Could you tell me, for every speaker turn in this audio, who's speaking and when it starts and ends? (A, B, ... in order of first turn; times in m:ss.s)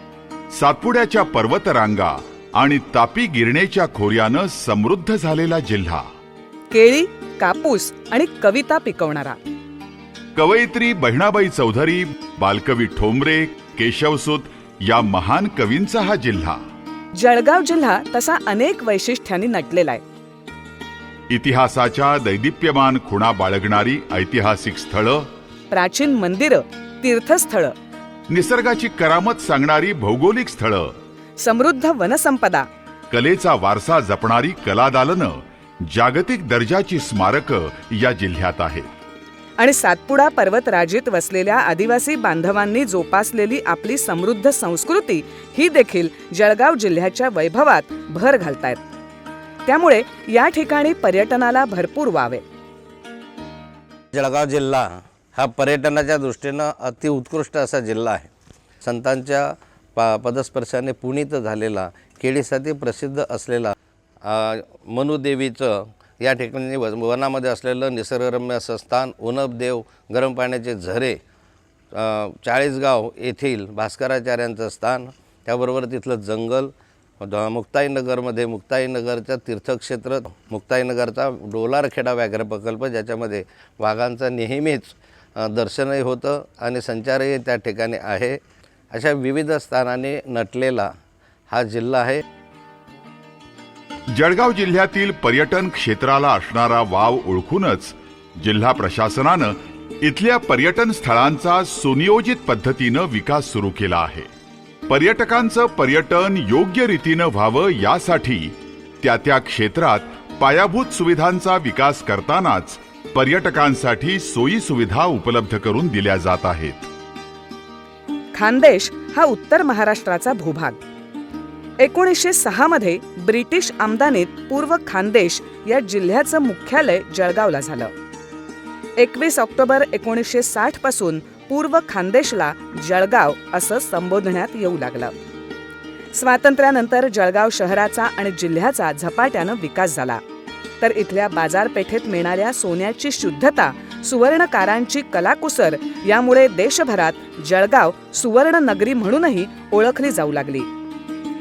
0:00.5-0:06.1 A
0:06.7-0:09.4 B
0:10.4-0:16.6 A
0:17.2-0:20.0 B
0:21.3-0:25.3 A
0:25.7-0:27.7 B
0:28.3-0:30.9 A
0:31.4-0:32.7 B
0:33.1-0:38.9 A
0:39.6-0:48.8 B
0:49.7-0:52.4 B
0:54.1-0:58.3 C
0:58.8-1:11.2 C
1:11.9-1:28.4 C
1:28.9-1:30.9 C
1:31.5-1:32.2 C
1:34.1-1:44.3 A
1:44.9-1:56.9 A
1:58.3-2:00.8 B
2:01.8-2:07.9 B
2:09.0-2:15.1 B
2:16.1-2:20.2 B
2:20.8-2:30.7 B